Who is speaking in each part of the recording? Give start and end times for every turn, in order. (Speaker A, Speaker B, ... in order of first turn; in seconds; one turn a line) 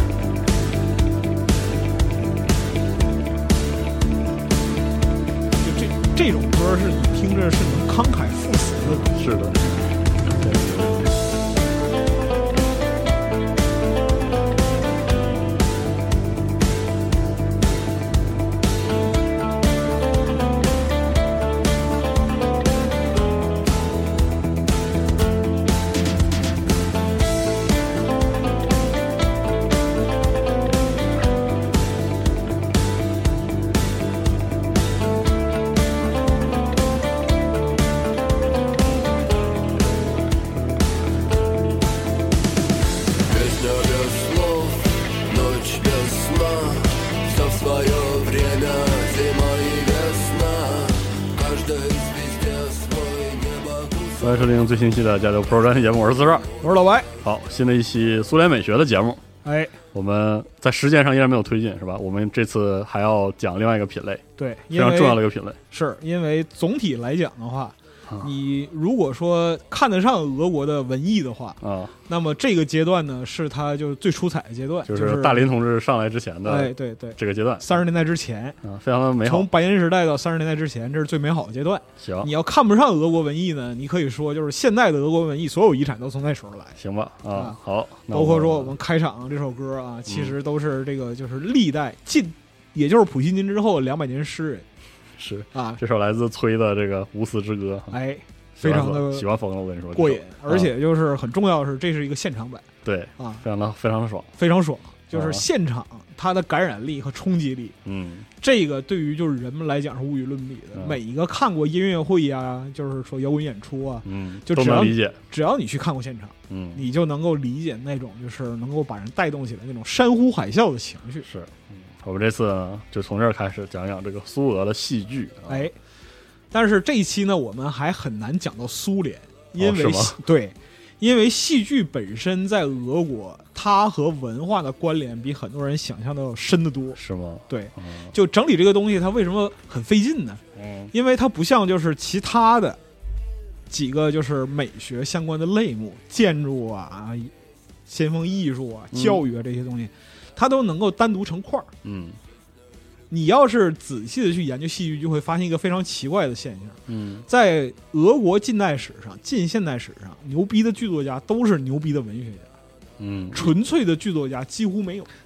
Speaker A: 5.6-9.1
Speaker B: 9.2-9.6
Speaker B: 10.3-11.1
Speaker C: 43.3-54.5
Speaker B: 54.2-56.5
Speaker A: 56.6-57.1
Speaker B: 57.2-59.2
Speaker A: 59.4-59.8
Speaker B: 59.9-65.6
Speaker A: 64.4-75.5
Speaker B: 71.6-71.9
Speaker B: 74.9-77.7
Speaker A: 76.5-78.6
Speaker B: 78.6-79.5
Speaker A: 79.2-86.8
Speaker B: 82.0-82.3
Speaker B: 86.8-88.8
Speaker A: 87.3-87.6
Speaker A: 88.1-94.7
Speaker B: 90.1-90.3
Speaker B: 95.2-98.0
Speaker A: 95.5-95.8
Speaker A: 97.9-99.3
Speaker B: 98.6-100.7
Speaker A: 99.9-102.7
Speaker B: 102.8-104.3
Speaker A: 103.2-103.4
Speaker A: 104.4-107.8
Speaker B: 105.1-105.4
Speaker B: 107.8-108.3
Speaker A: 108.4-121.3
Speaker B: 114.0-115.2
Speaker B: 116.5-116.8
Speaker B: 121.2-125.7
Speaker A: 125.5-125.7
Speaker A: 126.5-142.8
Speaker B: 129.6-130.2
Speaker B: 137.0-138.1
Speaker B: 140.6-140.9
Speaker A: 143.7-147.3
Speaker A: 147.9-151.7
Speaker B: 148.9-149.2
Speaker B: 151.8-152.2
Speaker A: 153.1-162.5
Speaker B: 156.9-157.3
Speaker B: 163.0-163.6
Speaker A: 163.3-165.1